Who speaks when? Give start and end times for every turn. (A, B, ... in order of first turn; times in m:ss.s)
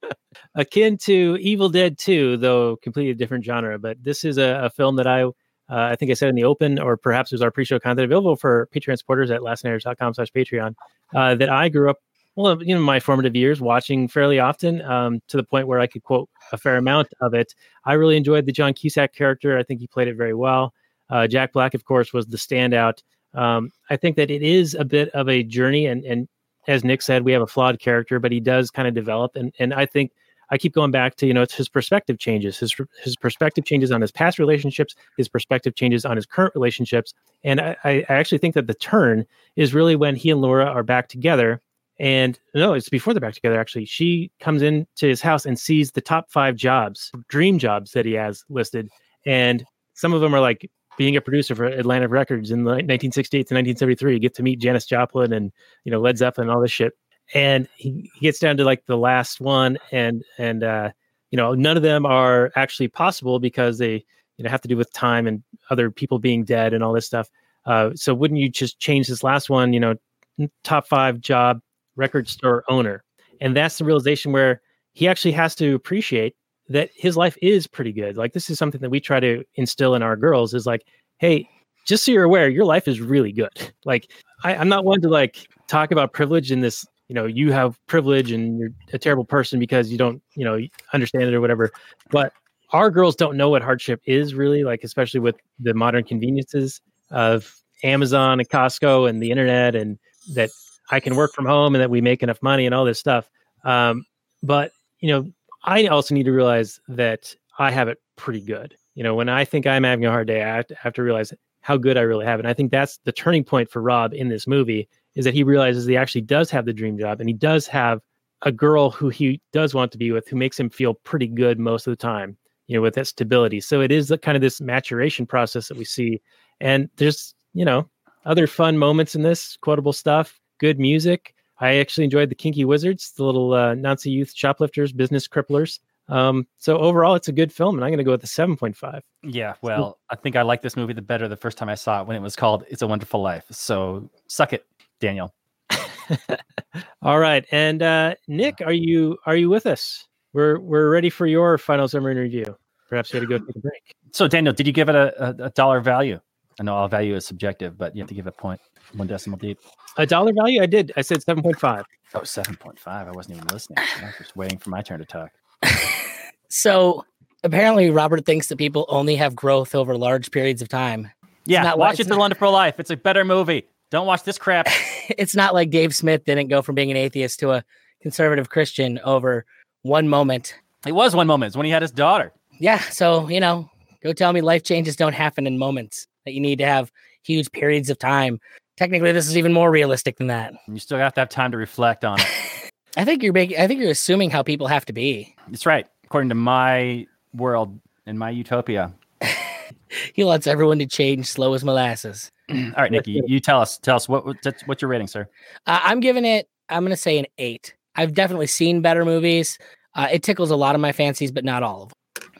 0:00.5-2:19.0 A
2:19.2-2:25.3 B
2:25.7-2:26.4 A
2:27.0-2:33.8 A
2:34.1-2:39.6 B
2:40.0-2:41.8 A
2:42.1-2:45.3 B
2:45.6-2:52.2 C
2:51.4-2:54.7 B
2:54.7-3:00.6 C
3:00.8-3:02.3 B
3:02.6-3:10.6 C
3:10.7-3:12.3 B
3:13.0-3:15.3 C
3:15.5-3:18.9 B
3:20.1-3:22.3 C
3:22.5-3:25.3 B
3:22.9-3:23.2 A
3:25.6-3:31.9 C